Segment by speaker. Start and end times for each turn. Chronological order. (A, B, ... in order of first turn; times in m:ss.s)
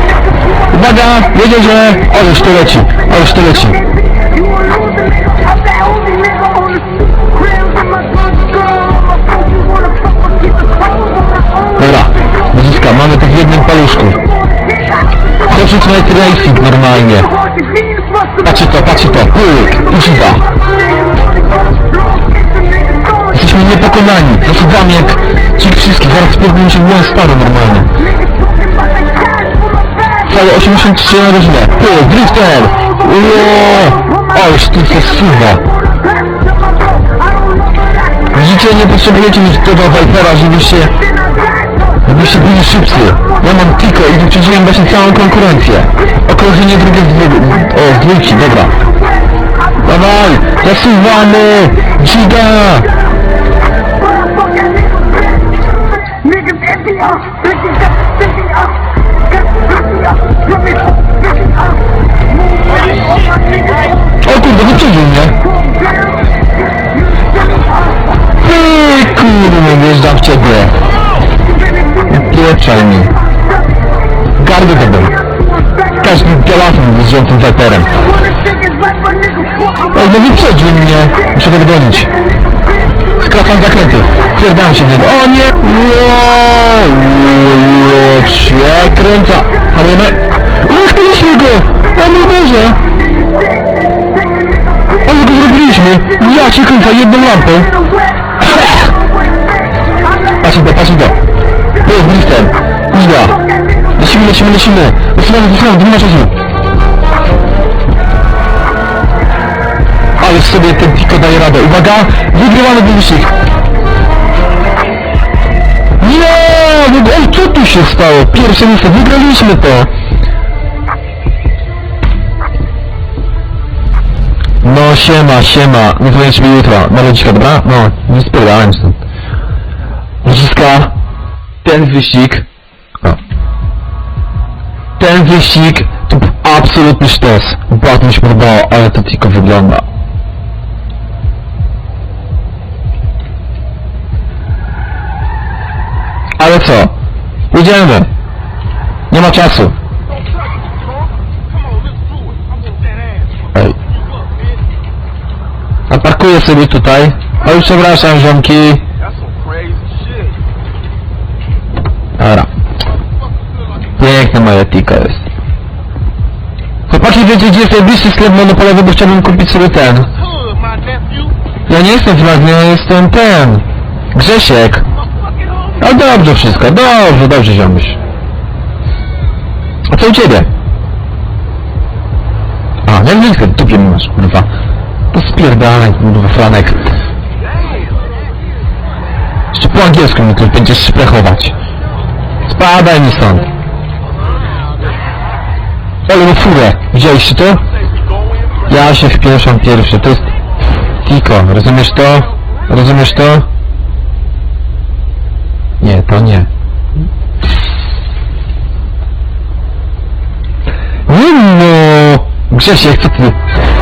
0:00.7-0:03.8 A
0:11.8-0:14.2 A
0:15.4-0:17.3 A
0:18.4-0:20.5 A
0:23.3-0:27.9 A
0:30.2-0:35.7 A
0:38.3-0:41.0 A
0:42.0-0:48.8 A
0:49.8-0:52.9 A
1:02.7-1:04.0 B
1:04.2-1:05.4 A
1:08.4-1:10.8 A
1:12.0-1:13.1 A
1:14.4-1:15.2 A
1:16.0-1:18.0 A
1:19.9-1:22.1 A
1:23.2-1:32.8 A
1:35.0-1:37.8 A
1:38.4-1:38.9 A
1:40.4-1:41.2 A
1:41.8-1:43.4 A
1:44.0-1:46.4 A
1:50.2-1:53.4 A
1:56.0-1:59.9 A
2:04.6-2:09.0 A
2:10.2-2:10.9 A
2:11.6-2:12.5 A
2:15.0-2:19.9 A
2:26.4-2:26.9 A
2:27.5-2:28.1 A
2:29.1-2:29.8 A
2:31.5-2:33.3 B
2:35.9-2:38.8 A
2:39.1-2:40.4 B
2:42.2-2:42.5 A
2:44.0-2:45.2 A
2:46.9-2:50.1 A
2:50.4-2:51.3 B
2:51.7-2:54.9 A
2:55.2-2:55.8 B
2:55.8-2:58.0 A
2:59.9-3:00.5 A
3:02.8-3:04.5 A
3:05.1-3:06.9 A
3:07.6-3:07.9 B
3:09.5-3:11.6 A
3:12.4-3:13.5 A
3:16.1-3:17.6 A
3:18.7-3:20.3 A
3:21.0-3:23.5 A
3:25.8-3:26.5 A
3:31.1-3:33.4 A